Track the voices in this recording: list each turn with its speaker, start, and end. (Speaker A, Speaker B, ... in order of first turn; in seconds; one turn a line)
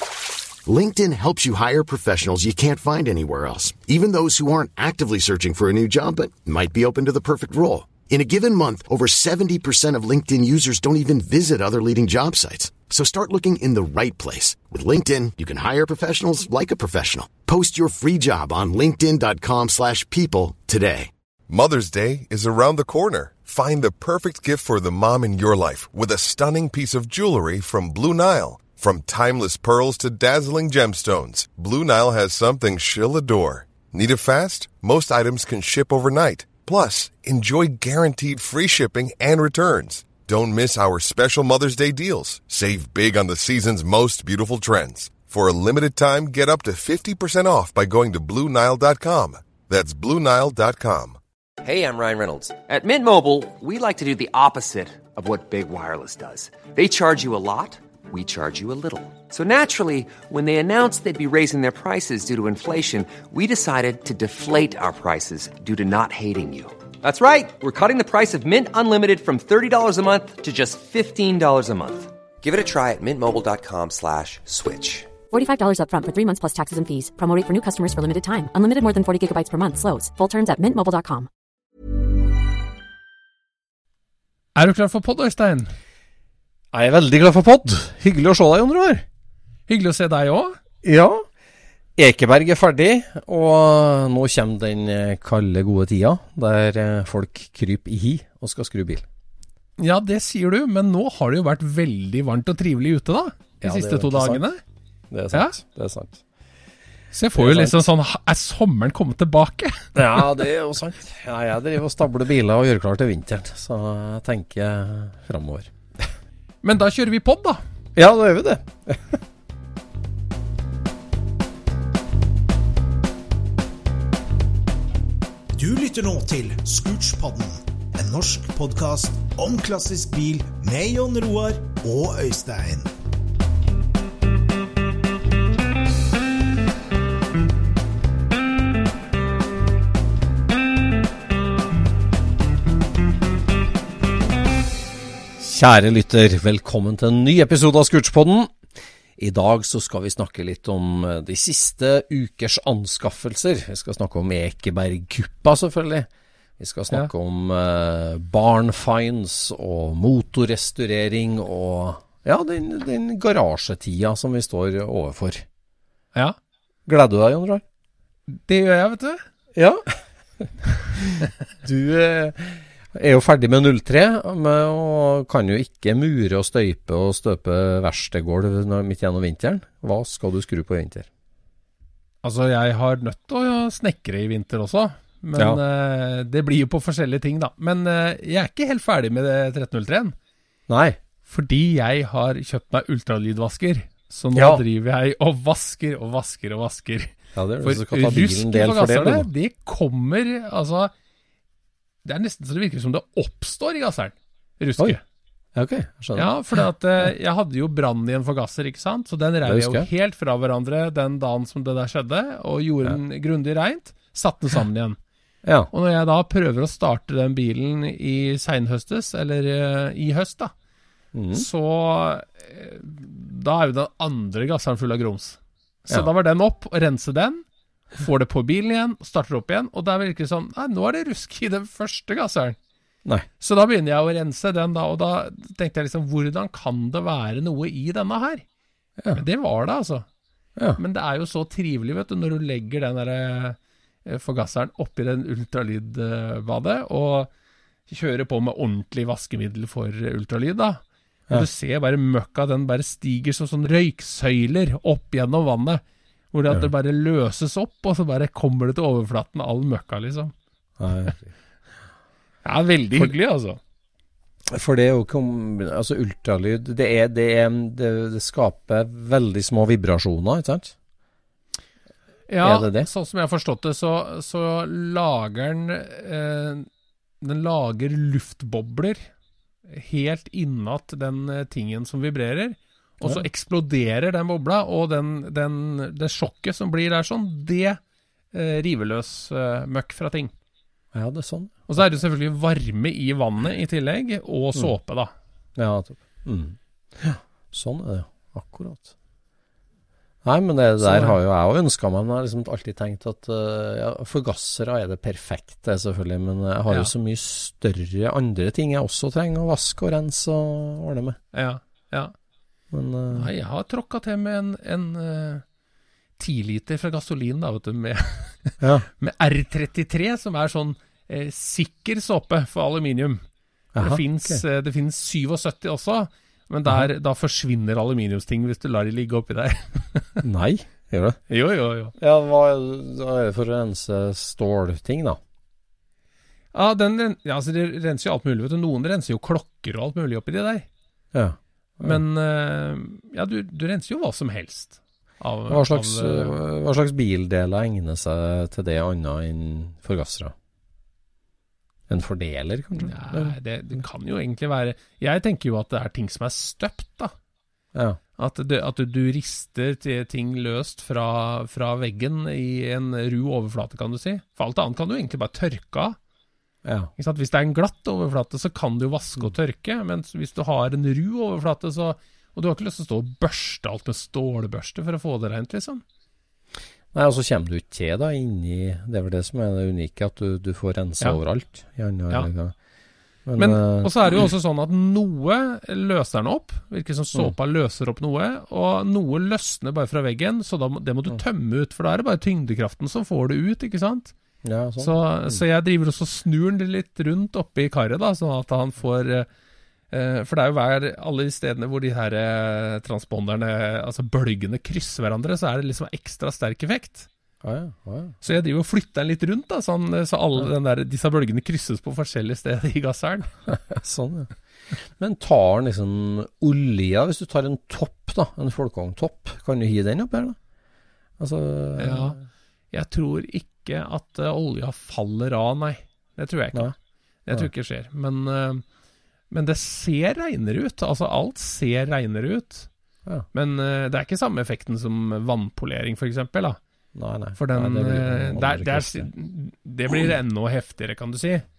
Speaker A: 0.6-21.1
Speaker B: 21.5-51.2
Speaker C: 51.6-75.1
Speaker D: 75.3-81.3
Speaker E: 84.5-85.7
Speaker F: 86.7-89.0
Speaker E: 89.7-90.6
Speaker F: 90.8-91.2
Speaker F: 92.0-99.0
Speaker E: 99.8-104.6
Speaker F: 103.6-104.4
Speaker F: 105.1-106.2
Speaker E: 107.1-109.8
Speaker F: 107.3-107.8
Speaker F: 109.9-115.7
Speaker E: 116.6-117.6
Speaker F: 118.0-119.2
Speaker G: 125.6-132.9
Speaker F: 145.4-148.6
Speaker F: 149.2-165.4
Speaker F: 166.8-167.6
Speaker E: 168.3-169.2
Speaker F: 169.6-181.1
Speaker E: 182.2-190.2
Speaker F: 190.7-191.0
Speaker E: 191.2-200.9
Speaker F: 194.3-194.6
Speaker F: 197.3-199.3
Speaker E: 202.0-205.0
Speaker F: 205.5-206.3
Speaker E: 206.1-215.0
Speaker F: 209.4-209.9
Speaker F: 215.4-215.7
Speaker E: 215.7-220.5
Speaker F: 221.1-221.4
Speaker E: 221.3-232.6
Speaker E: 233.4-238.4
Speaker E: 239.1-240.1
Speaker E: 240.8-247.3
Speaker E: 247.9-260.3
Speaker F: 260.8-261.3
Speaker E: 262.4-263.6
Speaker F: 264.5-270.7
Speaker E: 272.3-276.7
Speaker F: 272.4-272.9
Speaker E: 277.2-279.1
Speaker E: 279.7-287.8
Speaker E: 288.3-290.3
Speaker F: 290.9-291.6
Speaker E: 291.7-295.1
Speaker F: 295.6-298.9
Speaker F: 300.2-311.2
Speaker E: 300.8-301.1
Speaker E: 311.3-312.1
Speaker F: 312.7-313.3
Speaker E: 313.1-315.4
Speaker E: 316.2-323.2
Speaker F: 318.6-318.9
Speaker F: 323.7-324.4
Speaker E: 323.8-330.2
Speaker F: 330.2-331.2
Speaker E: 331.3-331.9
Speaker F: 332.0-335.2
Speaker E: 336.5-340.7
Speaker F: 341.1-342.0
Speaker E: 341.8-346.4
Speaker F: 345.5-350.3
Speaker F: 351.9-353.8
Speaker E: 352.8-357.1
Speaker F: 357.7-358.0
Speaker E: 358.2-366.0
Speaker F: 366.6-366.9
Speaker E: 367.0-375.8
Speaker F: 376.9-382.5
Speaker F: 383.2-384.3
Speaker E: 383.4-394.1
Speaker F: 394.4-395.4
Speaker E: 394.8-399.3
Speaker E: 399.9-407.1
Speaker F: 407.4-408.1
Speaker E: 408.2-413.4
Speaker F: 413.7-414.3
Speaker F: 415.0-420.4
Speaker F: 421.2-422.2
Speaker E: 421.8-422.2
Speaker E: 422.7-426.7
Speaker E: 427.2-428.6
Speaker E: 429.3-432.7
Speaker E: 433.3-436.6
Speaker F: 436.9-439.1
Speaker E: 437.4-441.4